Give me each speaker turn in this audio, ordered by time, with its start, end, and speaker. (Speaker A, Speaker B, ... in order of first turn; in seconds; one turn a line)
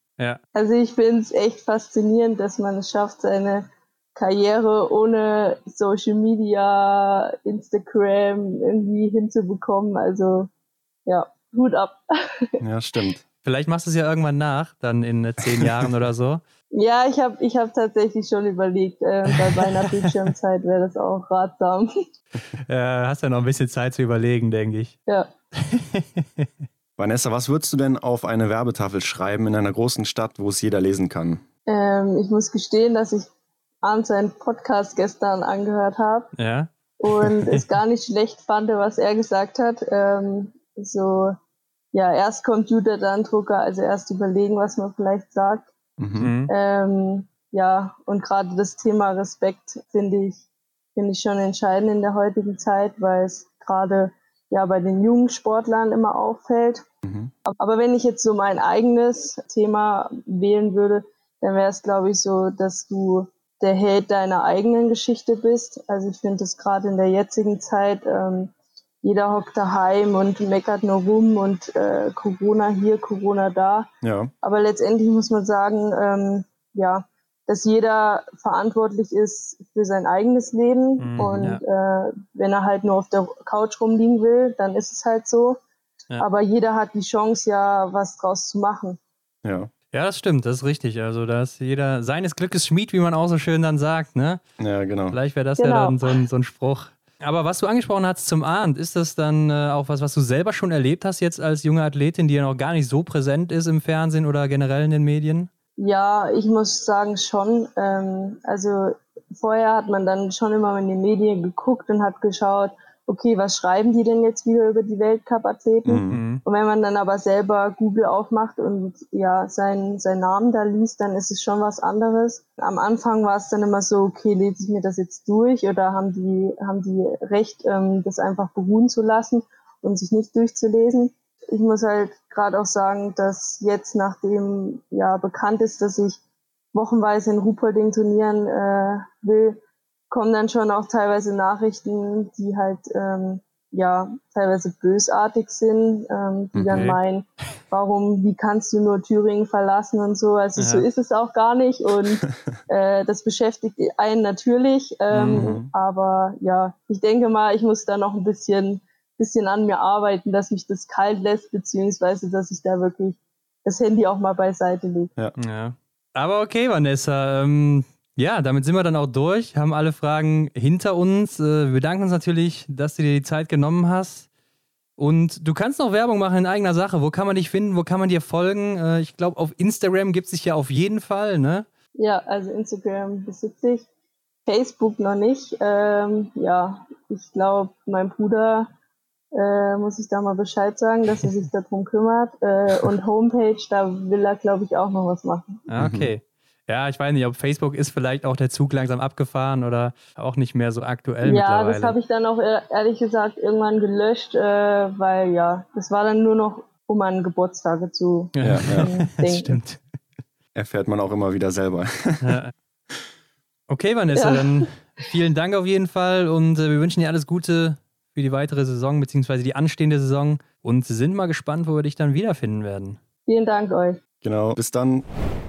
Speaker A: 0.5-10.5
Speaker A: 11.1-12.6
Speaker B: 12.6-13.2
Speaker C: 13.4-16.4
Speaker B: 15.5-15.9
Speaker A: 16.7-21.9
Speaker C: 22.5-25.0
Speaker C: 25.6-26.5
Speaker B: 27.0-31.4
Speaker A: 31.7-33.3
Speaker A: 33.8-36.3
Speaker C: 36.4-36.7
Speaker A: 37.0-41.4
Speaker A: 41.9-45.7
Speaker B: 46.0-46.3
Speaker C: 46.2-46.5
Speaker A: 46.5-50.4
Speaker A: 51.0-56.9
Speaker B: 57.0-57.3
Speaker A: 57.5-73.9
Speaker B: 74.0-74.3
Speaker A: 74.4-85.6
Speaker C: 81.0-81.6
Speaker B: 81.2-81.6
Speaker A: 86.2-89.0
Speaker B: 89.4-89.7
Speaker C: 89.9-94.4
Speaker B: 94.6-95.2
Speaker C: 95.1-105.5
Speaker A: 95.6-96.2
Speaker A: 105.8-136.2
Speaker B: 115.9-116.2
Speaker C: 116.1-116.4
Speaker A: 136.7-165.1
Speaker B: 146.6-146.9
Speaker C: 146.7-147.0
Speaker C: 150.6-150.9
Speaker C: 155.1-155.6
Speaker B: 155.3-155.7
Speaker C: 165.4-174.3
Speaker C: 175.0-181.7
Speaker A: 182.0-183.9
Speaker A: 184.4-188.7
Speaker A: 189.3-195.6
Speaker C: 195.7-201.9
Speaker B: 195.8-196.1
Speaker A: 201.2-209.6
Speaker C: 208.4-209.9
Speaker B: 208.4-208.9
Speaker B: 210.6-212.4
Speaker C: 212.2-212.5
Speaker C: 213.7-223.0
Speaker A: 214.1-214.7
Speaker A: 223.3-224.0
Speaker B: 224.2-225.1